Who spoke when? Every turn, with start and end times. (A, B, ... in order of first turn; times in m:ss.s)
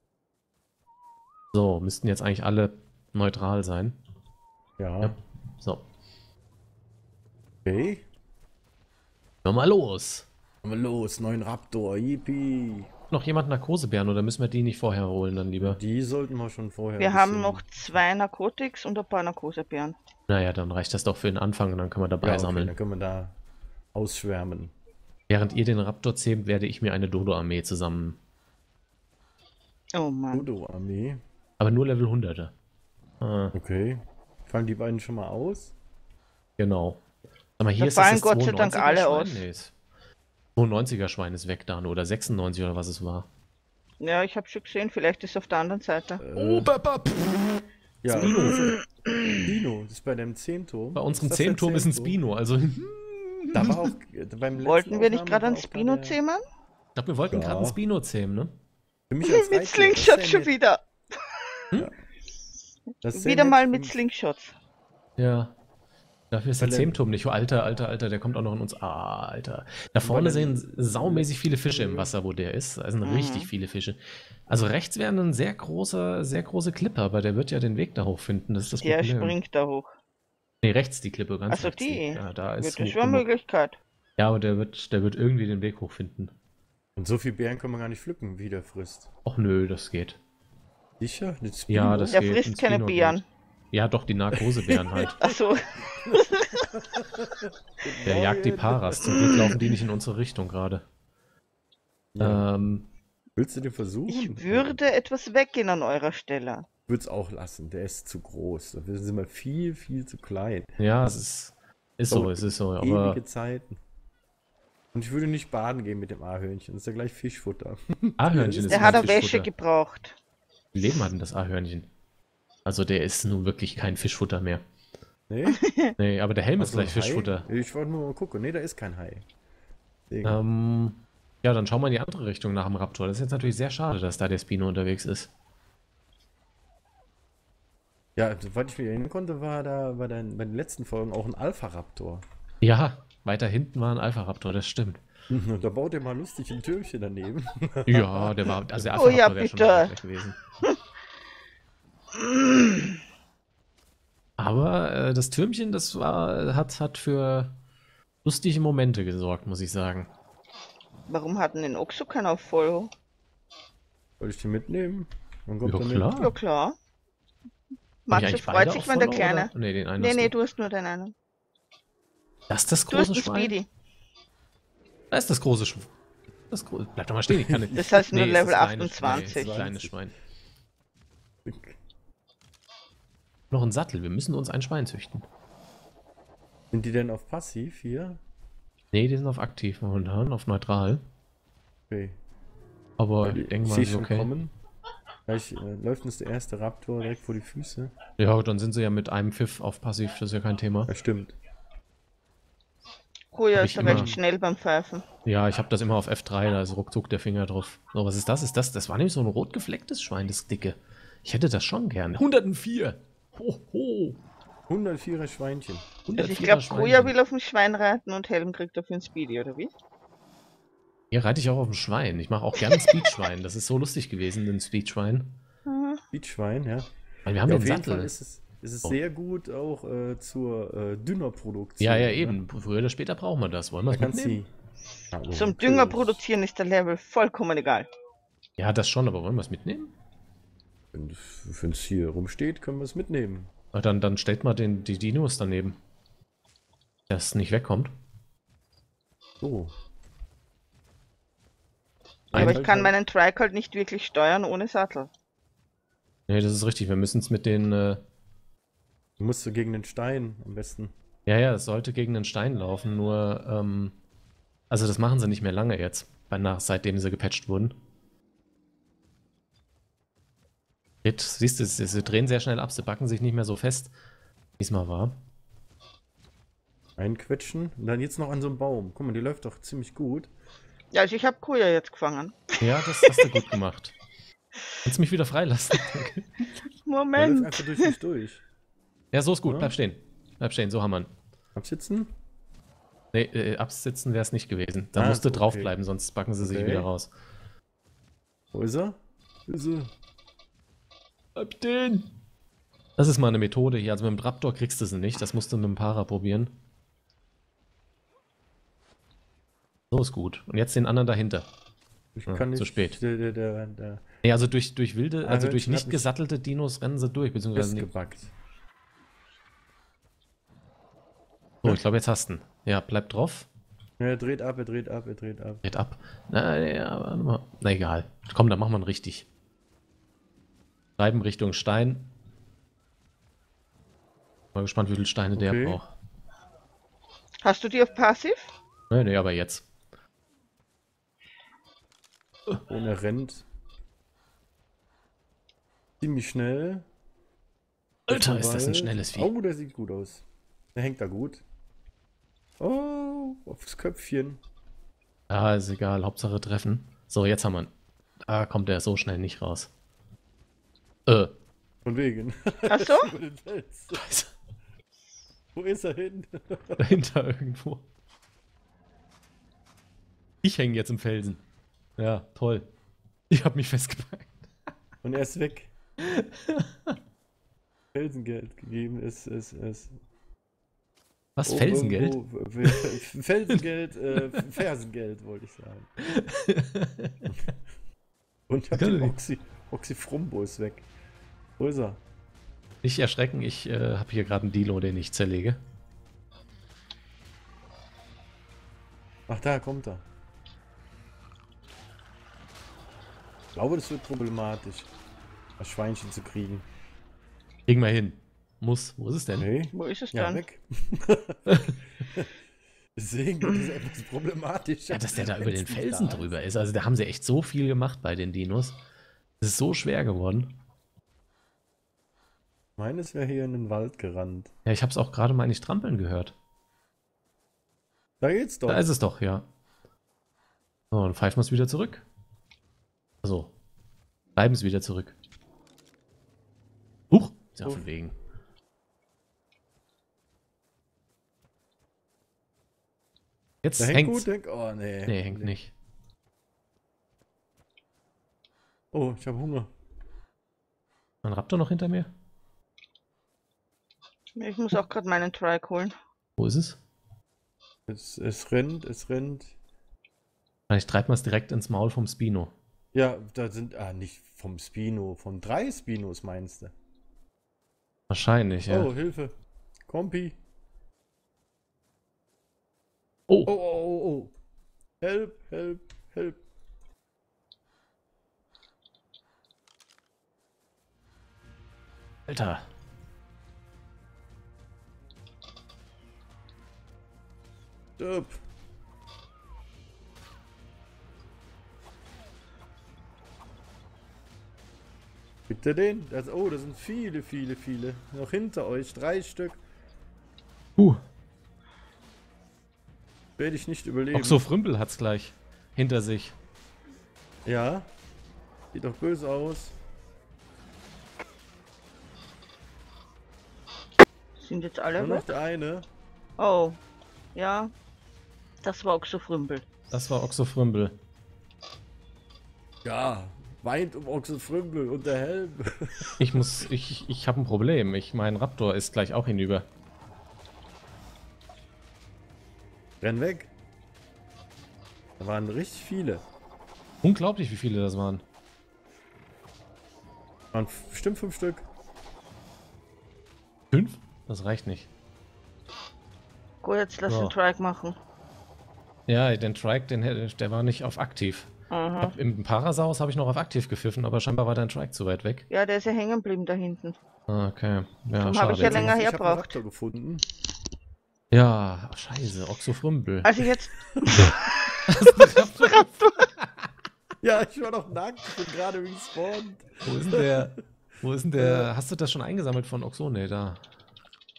0:01.5-0:04.0 A
0:04.8-0:05.2 B
0:05.0-0:05.8 A
0:07.6-0:08.0 B
0:09.4-0:10.2 A
0:10.6-0:12.9 B
0:13.1-0:15.8 A
0:15.6-0:18.0 B
0:17.0-0:20.0 C
0:20.3-0:22.7 A
0:22.2-0:23.4 B
0:23.9-0:24.7 B
0:25.3-0:28.2 A
0:29.9-0:30.5 C
0:30.3-0:31.2 B
0:31.6-0:32.5 A
0:33.2-0:33.5 A
0:33.5-0:35.7 B
0:36.6-0:37.0 A
0:37.6-0:39.7 A
0:37.8-0:39.4 C
0:40.6-0:43.3 A
0:44.0-0:46.2 C
0:46.2-0:46.7 B
0:46.4-0:48.7 A
0:48.0-0:48.8 B
0:48.3-0:49.4 C
0:49.3-0:52.2 B
0:51.0-0:53.9 A
0:53.5-0:56.2 B
0:54.6-0:56.4 C
0:57.0-0:58.5 A
0:57.3-0:57.8 B
0:59.1-1:00.5 B
0:59.2-1:00.8 C
1:03.0-1:04.0 B
1:03.1-1:04.5 C
1:05.2-1:05.5 A
1:06.3-1:19.4 A
1:06.6-1:07.0 B
1:10.0-1:12.1 B
1:13.0-1:13.5 C
1:18.6-1:19.9 C
1:20.6-1:23.2 A
1:21.5-1:23.8 C
1:24.2-1:26.3 A
1:27.0-1:29.1 B
1:29.2-1:30.2 A
1:31.0-1:32.2 B
1:31.7-1:33.2 A
1:32.1-1:33.2 C
1:33.7-1:35.2 A
1:34.3-1:35.3 B
1:35.2-1:36.7 C
1:35.8-1:39.8 B
1:38.0-1:40.8 A
1:39.1-1:39.4 C
1:42.1-1:42.5 B
1:42.2-1:42.8 A
1:43.4-1:44.8 B
1:44.1-1:46.6 C
1:46.9-1:50.7 B
1:50.8-1:53.2 A
1:52.1-1:53.8 B
1:54.9-1:59.3 B
1:58.2-1:59.5 A
1:58.7-2:00.2 C
2:00.7-2:01.9 A
2:02.6-2:04.6 A
2:05.3-2:05.6 B
2:05.4-2:05.9 C
2:06.0-2:07.5 A
2:06.6-2:09.2 B
2:10.1-2:10.4 B
2:10.2-2:15.3 A
2:18.2-2:22.2 B
2:22.6-2:25.0 A
2:25.3-2:28.8 B
2:27.8-2:30.4 A
2:28.9-2:29.9 C
2:32.1-2:32.9 C
2:34.4-2:37.5 A
2:38.2-2:40.1 A
2:41.1-2:42.9 C
2:44.2-2:46.1 B
2:45.6-2:46.3 A
2:46.1-2:46.8 C
2:48.1-2:51.1 C
2:48.1-2:50.3 A
2:52.5-2:53.5 A
2:52.9-2:53.7 C
2:55.1-2:55.9 A
2:56.5-3:00.1 A
2:57.3-2:58.0 B
2:57.7-2:59.5 C
2:59.0-3:00.0 B
3:01.4-3:01.8 B
3:03.5-3:05.2 A
3:06.7-3:08.2 B
3:08.9-3:11.0 A
3:11.9-3:12.2 B
3:13.0-3:14.3 A
3:13.2-3:14.5 B
3:15.2-3:18.0 B
3:18.2-3:20.9 A
3:20.9-3:21.4 B
3:23.3-3:25.0 C
3:23.5-3:24.1 A
3:23.8-3:24.2 B
3:25.2-3:34.2 A
3:34.7-3:35.9 B
3:36.0-3:37.1 A
3:36.2-3:39.7 C
3:41.1-3:45.4 A
3:42.7-3:43.0 C
3:45.6-3:46.0 C
3:46.1-3:46.9 B
3:47.2-3:48.1 A
3:47.4-3:52.4 B
3:51.8-3:54.4 A
3:53.9-3:54.5 B
3:55.1-3:56.2 B
3:55.3-3:57.9 C
3:58.6-3:59.9 A
4:00.9-4:03.5 B
4:03.7-4:05.8 A
4:07.1-4:07.9 A
4:09.4-4:09.7 B
4:12.3-4:12.9 B
4:12.3-4:12.6 A
4:12.3-4:15.1 C
4:16.3-4:18.0 A
4:19.2-4:20.9 B
4:21.2-4:24.0 A
4:24.7-4:27.8 A
4:31.0-4:33.9 A
4:34.6-4:35.2 A
4:37.0-4:40.3 B
4:40.9-4:43.3 C
4:42.6-4:44.0 A
4:44.8-4:46.3 A
4:46.8-4:47.9 C
4:47.2-4:48.4 B
4:49.1-4:51.1 A
4:49.4-4:49.7 B
4:51.6-4:52.1 B
4:53.1-4:57.1 A
4:54.9-4:55.7 B
4:56.4-4:56.9 B
4:58.5-4:59.9 B
5:01.4-5:02.1 A
5:03.0-5:06.5 A
5:09.9-5:11.4 A
5:12.1-5:14.0 B
5:12.3-5:13.0 A
5:14.2-5:17.8 A
5:15.2-5:16.1 B
5:17.5-5:18.3 B
5:21.6-5:23.5 A
5:24.0-5:25.6 B
5:25.6-5:29.2 A
5:31.0-5:32.1 A
5:34.5-5:35.9 A
5:35.4-5:35.8 B
5:37.4-5:38.5 C
5:38.9-5:39.6 A
5:42.7-5:43.4 B
5:46.0-5:46.8 B
5:48.1-5:49.3 A
5:48.1-5:50.2 B
5:50.7-5:51.4 B
5:52.6-5:54.4 B
5:55.3-5:57.7 A
5:58.3-5:59.7 A
6:01.1-6:01.3 A
6:01.8-6:04.0 B
6:02.7-6:03.1 C
6:03.9-6:04.3 A
6:05.5-6:07.0 B
6:06.8-6:07.8 A
6:10.4-6:11.4 A
6:12.0-6:12.7 A
6:13.3-6:14.5 A
6:15.0-6:15.7 B
6:16.0-6:16.9 A
6:17.9-6:19.9 B
6:21.4-6:23.0 A
6:21.4-6:25.9 B
6:26.0-6:27.3 A
6:28.5-6:30.9 B
6:28.7-6:29.1 A
6:31.6-6:32.0 B
6:32.8-6:35.6 A
6:39.3-6:40.0 B
6:43.5-6:44.9 B
6:45.6-6:46.6 B
6:47.7-6:49.5 A
6:49.4-6:52.3 B
6:49.7-6:50.4 C
6:53.0-6:56.3 B
6:54.9-6:58.8 A
6:59.4-7:00.5 A
7:02.8-7:04.5 B
7:04.6-7:06.3 A
7:08.2-7:08.9 B
7:08.7-7:09.4 A
7:10.9-7:12.0 A
7:13.2-7:13.5 A
7:14.4-7:15.1 A
7:17.1-7:18.1 A
7:23.6-7:24.3 A
7:23.8-7:25.5 B
7:25.0-7:25.7 A
7:28.9-7:29.7 B
7:31.2-7:32.1 A
7:34.4-7:36.0 C
7:36.4-7:36.8 A
7:37.9-7:39.5 B
7:40.7-7:42.5 A
7:42.9-7:46.7 B
7:48.1-7:48.9 A
7:48.6-7:49.3 B
7:49.9-7:50.4 B
7:53.4-7:54.3 B
7:55.0-7:56.4 B
8:02.3-8:02.6 A
8:08.0-8:08.4 B
8:15.5-8:19.6 B
8:23.4-8:24.4 B
8:24.1-8:26.4 A
8:27.4-8:27.9 B
8:28.7-8:29.8 B
8:34.4-8:35.3 C
8:35.0-8:35.9 B
8:36.4-8:36.8 C
8:37.3-8:37.7 C
8:38.6-8:39.6 C
8:39.9-8:41.0 A
8:42.8-8:46.2 B
8:46.2-8:49.6 A
8:53.0-8:53.5 B
8:55.2-8:56.2 B
8:57.0-8:58.2 A
9:00.5-9:01.6 B
9:03.7-9:04.9 A
9:06.6-9:08.0 C
9:07.1-9:07.3 A
9:09.1-9:11.5 A
9:11.7-9:12.1 C
9:12.0-9:15.4 A
9:15.5-9:17.0 C
9:17.3-9:18.9 A
9:18.2-9:19.5 C
9:18.5-9:20.2 B
9:21.3-9:23.4 A
9:23.2-9:24.4 C
9:23.9-9:24.3 B
9:24.1-9:26.7 A
9:25.5-9:26.1 C
9:27.2-9:30.5 B
9:29.8-9:33.6 A
9:31.4-9:31.7 B